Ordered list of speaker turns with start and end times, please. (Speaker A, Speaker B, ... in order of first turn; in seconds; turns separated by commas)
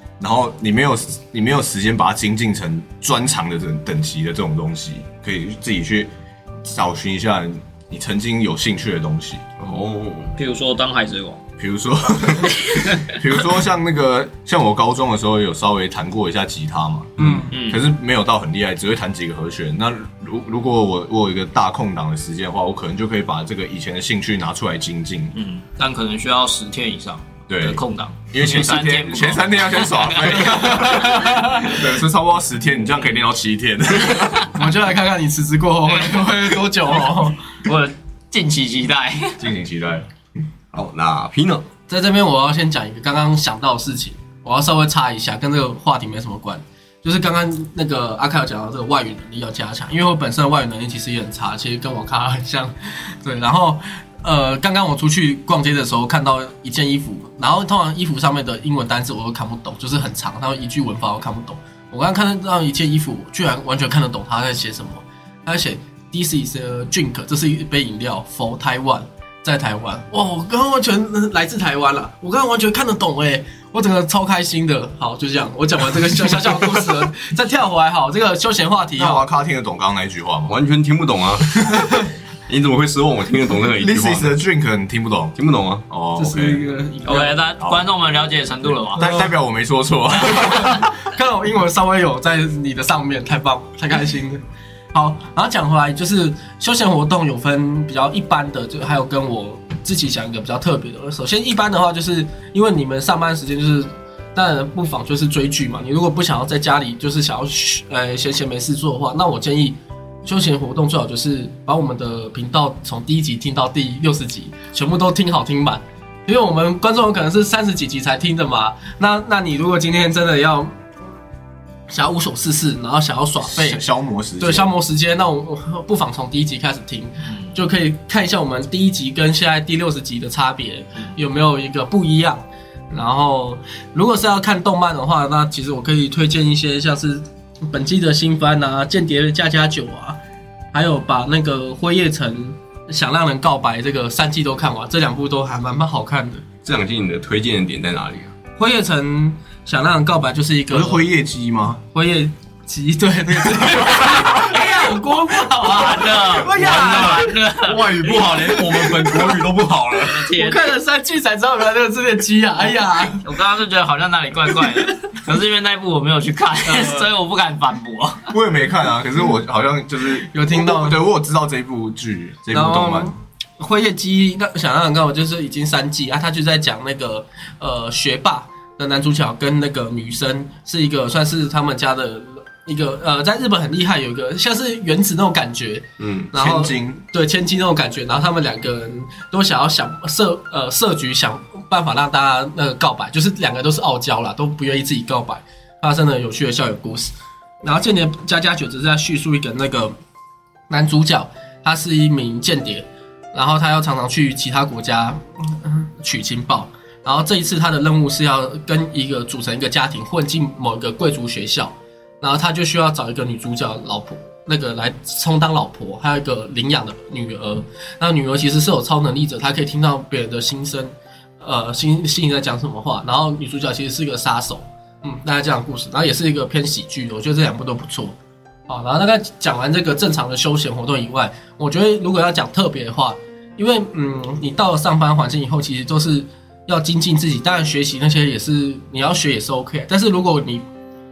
Speaker A: 0.2-6.1, Speaker A: 6.6-9.4, Speaker B: 9.6-10.3, Speaker C: 10.4-11.4, Speaker A: 11.6-25.3, Speaker C: 12.7-13.1, Speaker B: 17.2-17.5, Speaker D: 17.2-17.5, Speaker C: 17.5-17.8, Speaker C: 25.3-31.5, Speaker A: 27.5-34.5, Speaker D: 30.4-31.7, Speaker C: 34.1-34.5, Speaker D: 34.5-37.4, Speaker C: 35.8-36.4, Speaker C: 37.6-39.4, Speaker A: 39.4-40.1, Speaker B: 40.7-41.6, Speaker D: 41.9-79.2, Speaker A: 79.0-80.5, Speaker B: 80.5-81.8, Speaker B: 82.5-84.4, Speaker A: 83.8-85.3, Speaker B: 85.3-85.8, Speaker A: 85.9-86.6, Speaker D: 86.2-87.4, Speaker C: 87.0-89.1, Speaker A: 87.6-87.9, Speaker A: 88.8-90.9, Speaker D: 89.0-89.3, Speaker D: 90.2-94.4, Speaker D: 94.9-120.8, Speaker D: 121.9-123.8, Speaker A: 123.4-124.7, Speaker D: 124.4-140.2, Speaker C: 127.3-127.5, Speaker D: 140.7-146.4, Speaker B: 146.6-148.3, Speaker D: 148.6-151.0, Speaker A: 150.7-151.8, Speaker D: 151.9-157.3, Speaker C: 154.4-158.1, Speaker B: 156.4-160.3, Speaker D: 158.1-159.4, Speaker C: 159.9-160.7, Speaker D: 160.3-163.2, Speaker C: 163.1-168.3, Speaker D: 166.6-167.1, Speaker A: 168.3-173.1, Speaker D: 170.3-171.0, Speaker D: 172.5-197.1, Speaker B: 186.0-186.3, Speaker A: 186.3-187.0, Speaker D: 197.6-199.9, Speaker D: 200.7-228.2, Speaker D: 228.7-240.6